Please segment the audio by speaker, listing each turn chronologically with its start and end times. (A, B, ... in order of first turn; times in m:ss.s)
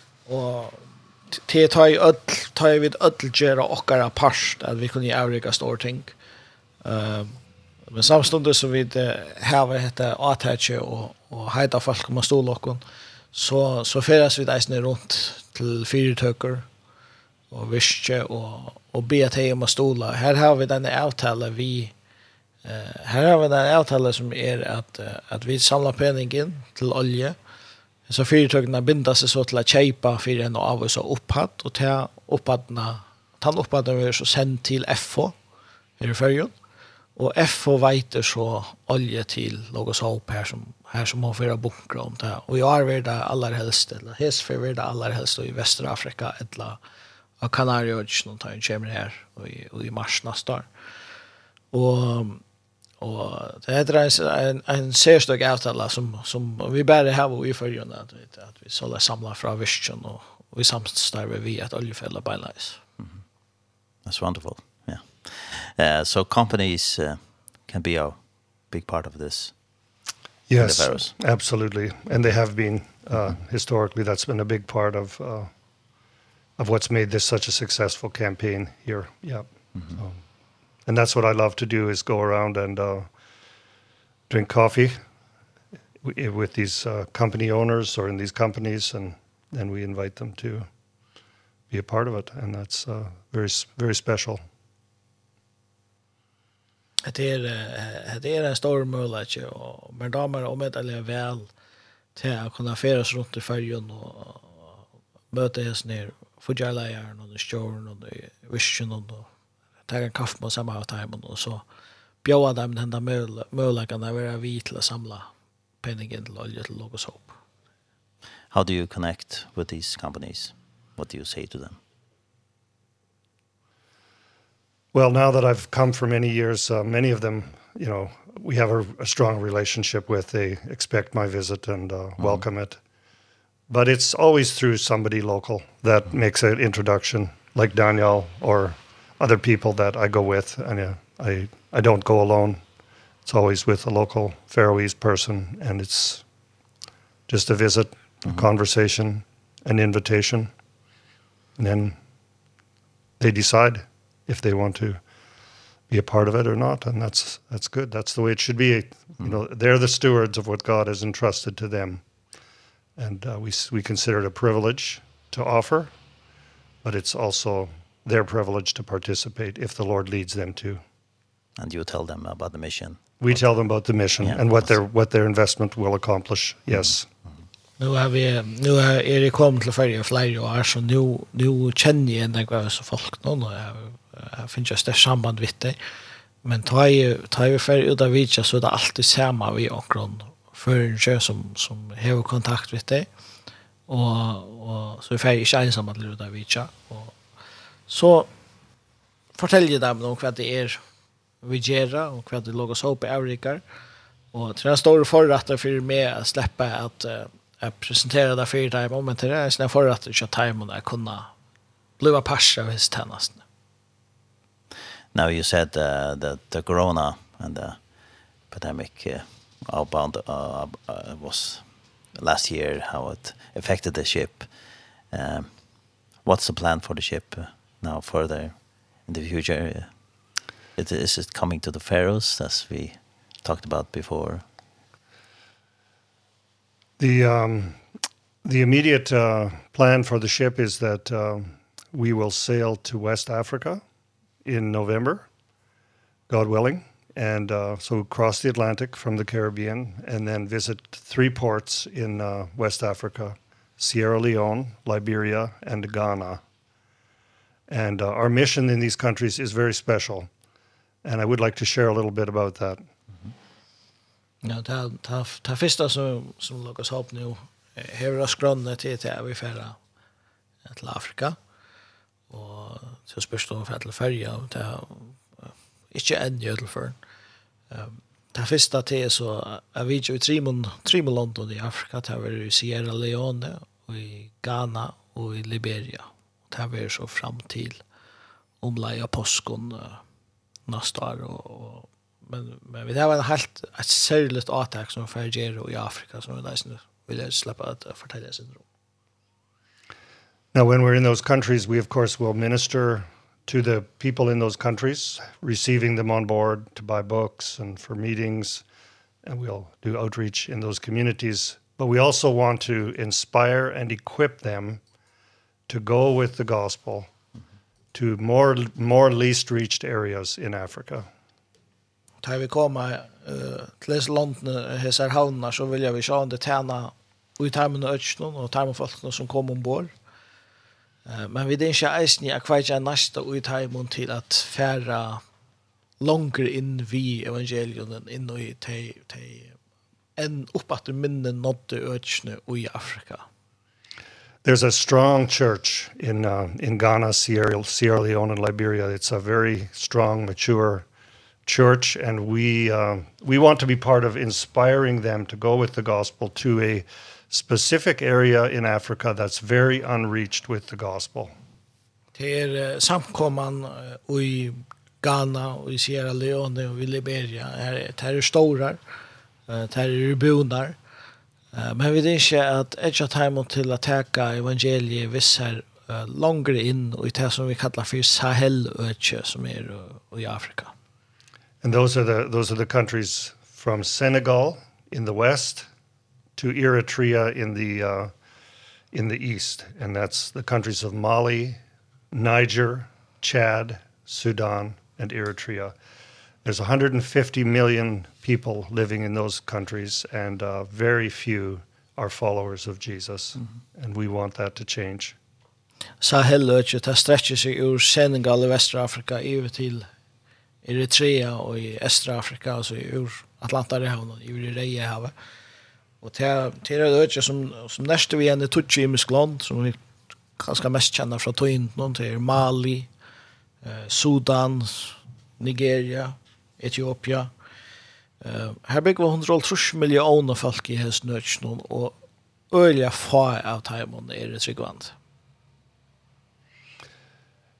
0:00.2-0:06.1 A
0:06.8-0:07.4 A
0:07.9-0:12.8 A
0:13.3-0:16.7 A
0:17.5-0:21.9 A
0:22.6-0:27.4 A
0:28.1-0:35.3 A
0:36.0-0:36.5 A
0:37.2-0:46.8 A
0:47.4-0:50.7 A
0:51.7-0:52.4 A
0:53.0-1:02.8 A
1:04.0-1:09.5 B
1:10.5-1:15.5 C
1:10.6-1:11.1 B
1:16.6-1:20.2 C
1:20.8-1:23.1 C
1:24.3-1:25.0 C
1:26.0-1:30.7 C
1:31.7-1:34.4 C
1:37.0-1:41.5 A
1:42.2-1:44.7 A
1:45.3-1:49.3 A
1:49.9-1:51.6 A
1:52.2-1:55.3 A
1:55.8-1:57.4 A
1:58.5-2:01.8 B
2:04.9-2:12.8 C
2:12.2-2:12.4 B
2:13.7-2:22.6 C
2:23.2-2:26.2 C
2:27.3-2:30.5 C
2:31.6-2:32.0 C
2:33.2-2:35.0 C
2:35.9-2:42.0 C
2:43.0-2:45.9 C
2:46.8-2:50.8 C
2:51.6-2:53.4 B
2:53.2-2:57.1 C
2:54.2-2:54.7 B
2:57.8-3:05.8 A
3:06.4-3:13.1 A
3:13.9-3:17.2 A
3:17.9-3:18.3 A
3:19.4-3:20.8 A
3:21.4-3:23.6 A
3:24.3-3:31.3 A
3:32.0-3:33.4 A
3:35.1-3:37.8 B
3:38.5-3:44.5 B
3:45.1-3:50.0 B
3:50.8-3:54.4 B
3:57.0-3:57.8 C
3:58.4-4:03.8 C
4:04.4-4:05.3 C
4:06.3-4:16.4 C
4:17.7-4:20.3 C
4:21.0-4:22.9 C
4:24.4-4:29.8 A
4:30.6-4:31.4 A
4:32.3-4:35.2 A
4:35.9-4:37.0 A
4:37.7-4:47.8 A
4:48.6-4:50.0 A
4:50.7-4:58.6 A
5:00.5-5:08.6 C
5:09.2-5:14.8 C
5:15.7-5:17.1 C
5:17.9-5:21.1 C
5:22.2-5:29.9 A
5:31.1-5:35.2 A
5:36.0-5:39.5 A
5:40.2-5:43.2 A
5:44.4-5:50.8 C
5:51.4-6:01.3 C
6:02.2-6:08.8 A
6:09.5-6:10.8 A
6:11.5-6:20.7 A
6:21.6-6:25.7 C
6:26.4-6:28.1 C
6:28.9-6:31.6 C
6:32.1-6:35.7 C
6:36.4-6:45.2 C
6:46.0-6:49.9 A
6:50.6-6:55.1 A
6:56.0-6:59.8 A
7:00.4-7:02.9 A
7:03.6-7:07.3 A
7:08.2-7:12.0 A
7:12.5-7:14.9 A